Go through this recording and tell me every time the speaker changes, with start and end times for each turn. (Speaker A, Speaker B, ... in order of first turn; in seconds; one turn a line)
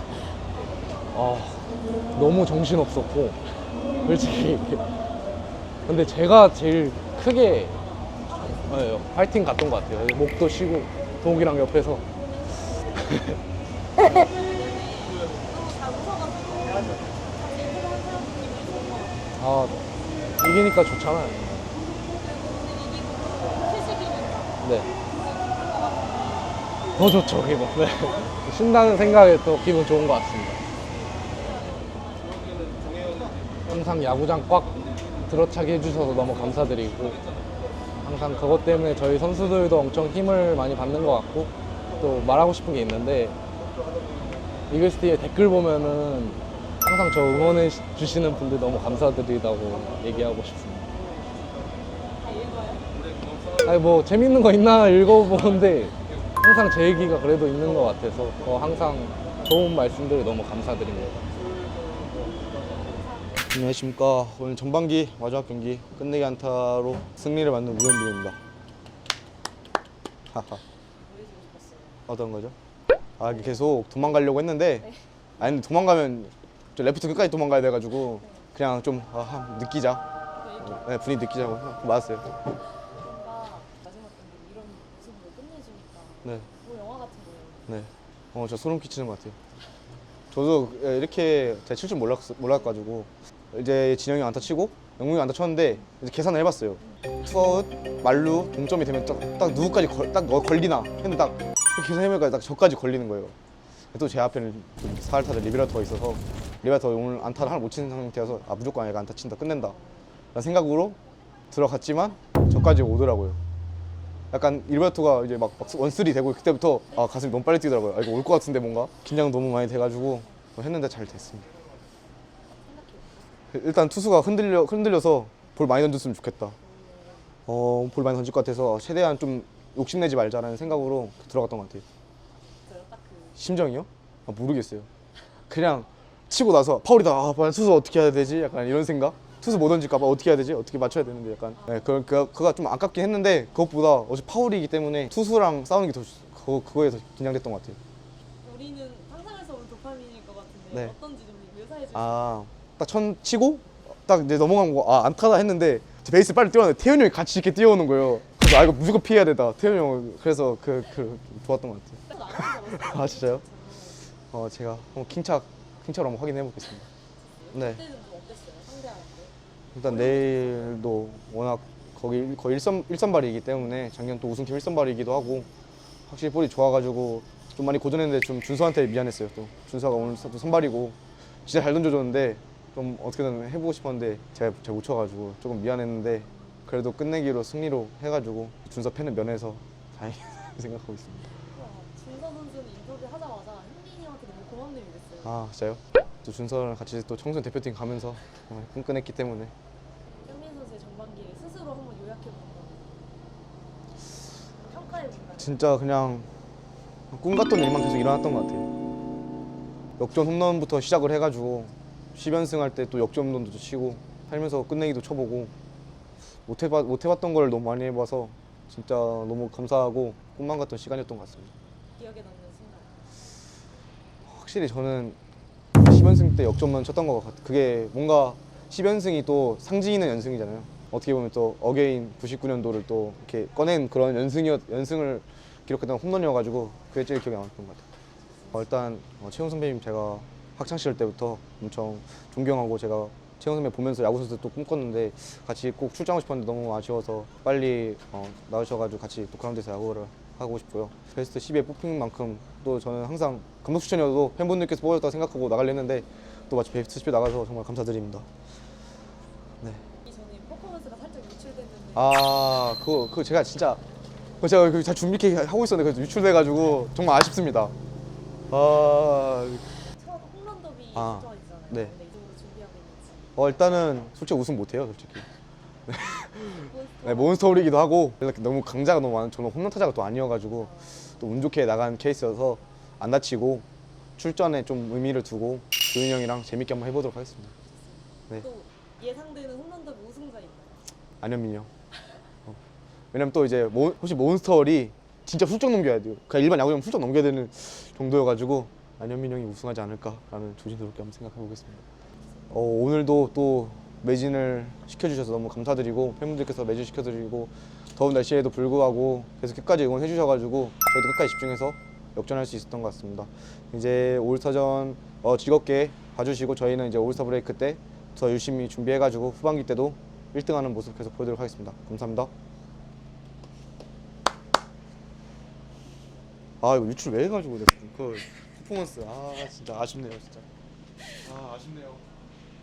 Speaker A: 1.1-3.4
Speaker A: 4.0-4.8
Speaker A: 5.9-7.8
Speaker B: 8.3-8.6
Speaker A: 8.6-12.0
Speaker A: 12.9-13.4
Speaker B: 14.0-19.3
Speaker A: 19.4-19.8
Speaker A: 20.4-21.5
Speaker B: 21.6-26.7
Speaker A: 24.6-24.9
Speaker A: 26.9-30.6
Speaker B: 30.9-33.4
Speaker A: 33.7-37.2
Speaker A: 38.0-43.4
Speaker A: 44.7-50.9
Speaker B: 52.1-52.9
Speaker A: 53.6-61.2
Speaker C: 63.5-68.4
Speaker C: 70.3-70.6
Speaker B: 71.0-72.0
Speaker C: 72.1-72.5
Speaker C: 73.2-74.9
Speaker B: 73.3-73.6
Speaker C: 75.4-80.1
Speaker B: 78.2-78.5
Speaker B: 80.4-81.0
Speaker C: 80.6-82.3
Speaker B: 82.8-87.7
Speaker C: 87.7-89.4
Speaker C: 90.3-103.3
Speaker C: 103.9-109.8
Speaker B: 109.7-110.0
Speaker C: 110.3-111.0
Speaker C: 111.5-113.4
Speaker C: 114.3-121.5
Speaker B: 122.6-123.4
Speaker C: 123.5-126.6
Speaker B: 126.6-127.4
Speaker C: 127.5-131.8
Speaker B: 132.7-133.4
Speaker C: 133.4-134.9
Speaker C: 135.5-147.8
Speaker B: 141.6-142.0
Speaker B: 148.4-152.3
Speaker C: 151.9-163.4
Speaker B: 162.1-164.0
Speaker C: 164.3-166.9
Speaker B: 167.3-170.8
Speaker C: 167.5-167.8
Speaker C: 169.7-175.5
Speaker C: 176.1-191.4
Speaker B: 180.0-180.4
Speaker B: 191.4-195.3
Speaker C: 195.2-199.5
Speaker B: 200.2-203.1
Speaker B: 204.6-205.6
Speaker C: 205.4-206.3
Speaker C: 207.1-208.7
Speaker C: 210.0-215.5
Speaker C: 216.5-221.5
Speaker B: 222.0-223.0
Speaker C: 224.2-225.2
Speaker C: 225.8-237.8
Speaker C: 238.5-258.3
Speaker B: 260.0-262.1
Speaker C: 261.9-263.8
Speaker C: 264.4-267.7
Speaker C: 268.5-269.7
Speaker B: 269.9-273.4
Speaker C: 270.9-271.9
Speaker C: 273.4-275.3
Speaker C: 275.9-283.6
Speaker B: 276.2-277.6
Speaker B: 280.6-281.1
Speaker C: 284.2-287.5
Speaker B: 288.2-290.8
Speaker C: 291.2-291.7
Speaker C: 293.1-301.9
Speaker C: 302.5-322.3
Speaker C: 326.6-330.5
Speaker C: 331.1-332.0